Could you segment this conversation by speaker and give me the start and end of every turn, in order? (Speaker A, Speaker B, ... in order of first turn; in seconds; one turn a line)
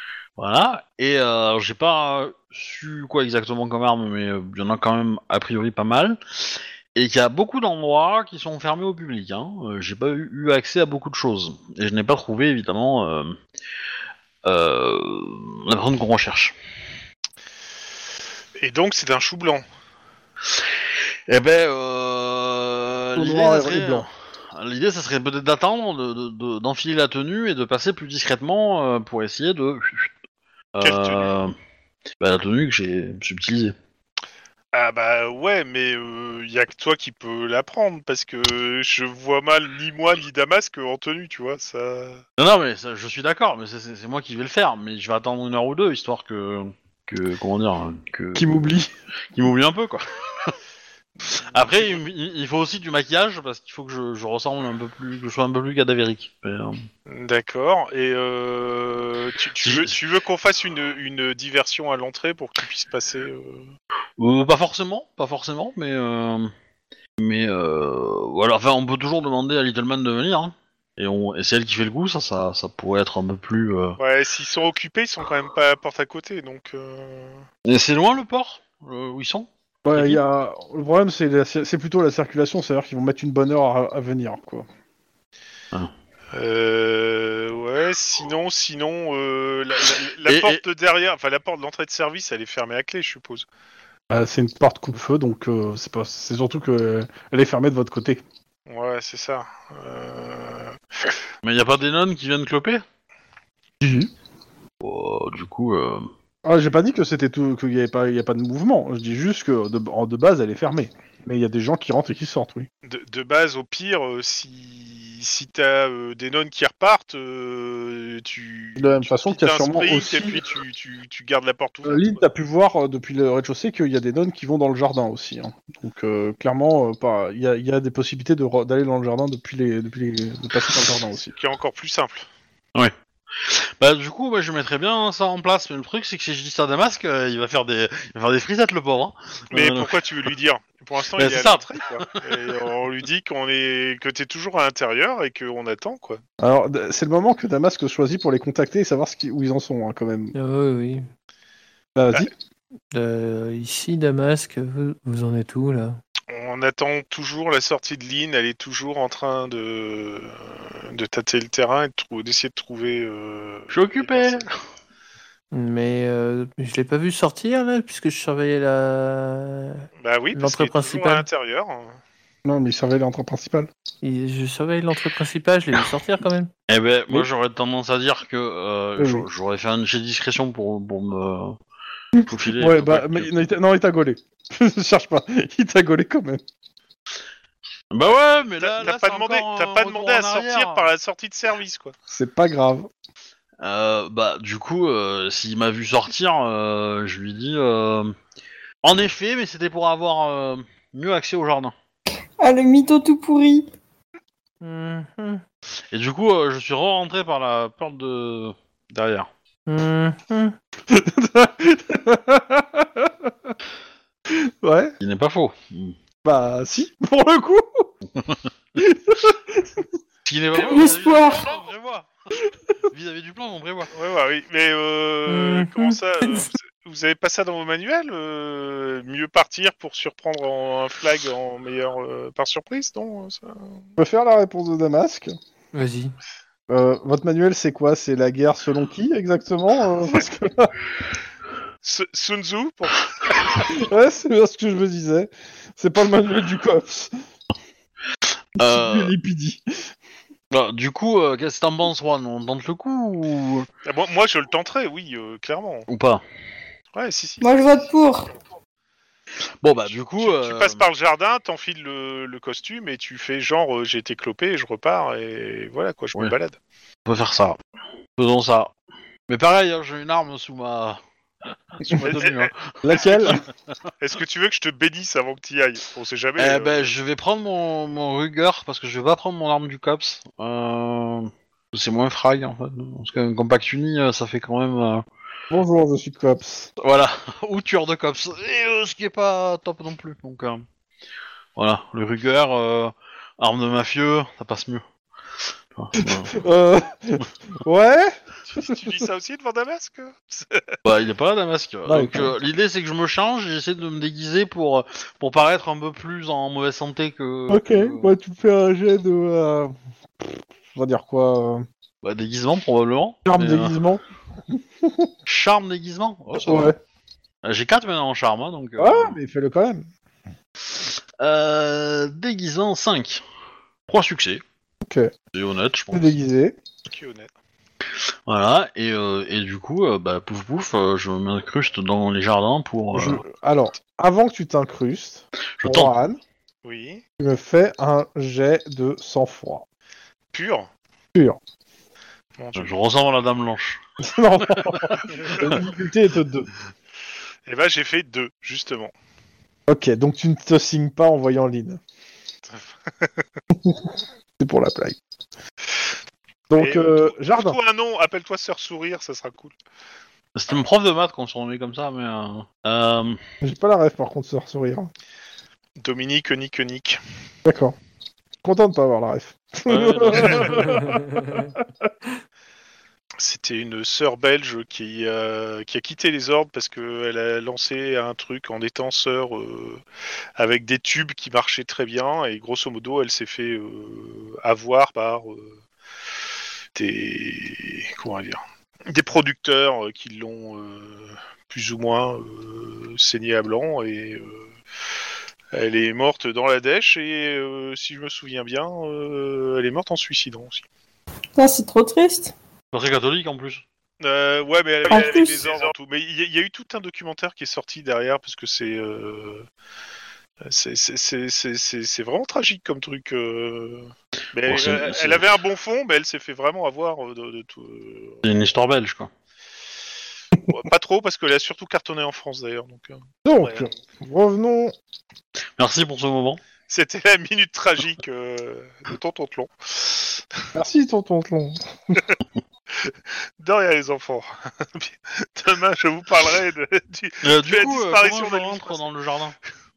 Speaker A: 0.4-13.4
Speaker A: 14.4-16.6
Speaker B: 18.6-19.6
Speaker A: 21.3-30.1
Speaker C: 23.1-24.1
Speaker A: 30.7-31.5
Speaker B: 30.8-31.3
Speaker A: 32.2-33.8
Speaker B: 34.7-42.2
Speaker A: 42.4-48.5
Speaker C: 48.3-48.9
Speaker A: 49.3-50.6
Speaker A: 51.2-56.9
Speaker B: 57.1-63.7
Speaker A: 59.6-60.0
Speaker A: 64.2-66.5
Speaker A: 67.2-74.0
Speaker B: 74.0-77.4
Speaker A: 77.6-80.2
Speaker C: 79.8-84.7
Speaker B: 86.3-93.5
Speaker A: 90.2-90.6
Speaker C: 94.1-98.2
Speaker B: 98.7-100.8
Speaker A: 101.4-102.8
Speaker C: 103.8-104.1
Speaker A: 104.8-106.1
Speaker C: 106.4-112.7
Speaker B: 112.8-122.2
Speaker C: 118.8-120.4
Speaker C: 121.8-131.3
Speaker B: 131.3-132.2
Speaker A: 132.7-139.9
Speaker B: 139.5-146.2
Speaker A: 141.2-142.2
Speaker C: 146.4-150.3
Speaker D: 150.3-151.1
Speaker C: 151.9-152.3
Speaker D: 152.9-156.0
Speaker B: 156.3-164.4
Speaker A: 163.7-164.5
Speaker D: 165.5-171.3
Speaker B: 170.0-172.0
Speaker C: 172.4-173.7
Speaker D: 174.0-176.5
Speaker A: 176.7-181.6
Speaker C: 179.0-179.3
Speaker C: 182.1-186.4
Speaker A: 182.2-183.3
Speaker A: 187.9-190.9
Speaker B: 188.6-191.9
Speaker C: 192.1-192.9
Speaker A: 193.6-198.1
Speaker A: 198.8-201.7
Speaker E: 202.4-203.7
Speaker D: 204.6-205.4
Speaker A: 205.9-209.3
Speaker D: 209.7-210.5
Speaker C: 210.9-213.5
Speaker C: 214.3-214.9
Speaker A: 215.0-215.9
Speaker C: 216.2-217.9
Speaker A: 218.1-218.4
Speaker C: 218.8-219.8
Speaker A: 220.2-222.1
Speaker E: 220.6-221.5
Speaker A: 222.9-223.9
Speaker B: 223.9-233.6
Speaker D: 225.3-226.5
Speaker C: 234.0-235.3
Speaker D: 235.7-236.1
Speaker C: 236.7-240.7
Speaker B: 241.8-243.7
Speaker C: 243.7-247.1
Speaker A: 248.6-249.1
Speaker C: 248.6-249.9
Speaker A: 250.5-253.7
Speaker B: 253.8-255.9
Speaker A: 255.9-256.2
Speaker B: 256.9-257.7
Speaker E: 257.4-258.3
Speaker A: 259.6-260.8
Speaker B: 260.1-266.6
Speaker A: 267.0-267.6
Speaker A: 268.2-268.7
Speaker A: 269.3-271.0
Speaker A: 271.8-273.4
Speaker B: 272.0-272.5
Speaker C: 272.8-273.4
Speaker B: 274.0-276.9
Speaker A: 276.4-285.0
Speaker C: 285.5-286.7
Speaker A: 286.8-290.6
Speaker A: 291.6-294.8
Speaker A: 295.7-296.4
Speaker C: 296.0-298.9
Speaker B: 298.5-300.7
Speaker A: 300.8-308.1
Speaker C: 301.9-302.3
Speaker C: 307.5-311.6
Speaker A: 312.0-313.8
Speaker C: 313.2-315.1
Speaker A: 315.3-316.7
Speaker C: 316.3-316.8
Speaker A: 317.4-319.2
Speaker C: 318.8-319.9
Speaker A: 320.8-323.2
Speaker A: 323.9-324.4
Speaker C: 324.8-325.1
Speaker A: 325.3-326.1
Speaker C: 325.9-326.6
Speaker B: 326.9-327.3
Speaker A: 328.3-333.2
Speaker C: 332.9-336.2
Speaker A: 335.6-335.9
Speaker B: 336.6-337.0
Speaker C: 337.2-339.6
Speaker B: 340.3-340.7
Speaker B: 342.4-342.7
Speaker A: 342.6-343.8
Speaker C: 344.0-346.5
Speaker A: 344.4-345.5
Speaker B: 347.5-348.9
Speaker C: 349.7-351.8
Speaker B: 352.5-353.2
Speaker C: 353.5-355.0
Speaker C: 356.5-357.6
Speaker B: 356.6-359.5
Speaker A: 360.3-363.2
Speaker C: 363.4-364.9
Speaker B: 365.8-367.0
Speaker C: 367.4-367.8
Speaker C: 368.4-371.9
Speaker A: 369.7-370.6
Speaker B: 370.2-370.5
Speaker D: 370.6-371.5
Speaker B: 373.2-379.8
Speaker B: 380.4-385.6
Speaker B: 386.7-394.5
Speaker B: 395.5-400.6
Speaker E: 401.4-402.3
Speaker A: 402.7-403.6
Speaker B: 404.0-409.5
Speaker E: 404.9-405.6
Speaker B: 410.4-418.2
Speaker A: 414.4-415.2
Speaker A: 418.2-419.1
Speaker B: 420.5-423.7
Speaker C: 423.2-424.7
Speaker A: 425.6-426.4
Speaker B: 426.7-430.2
Speaker C: 430.5-432.0
Speaker B: 432.8-438.8
Speaker A: 437.2-439.3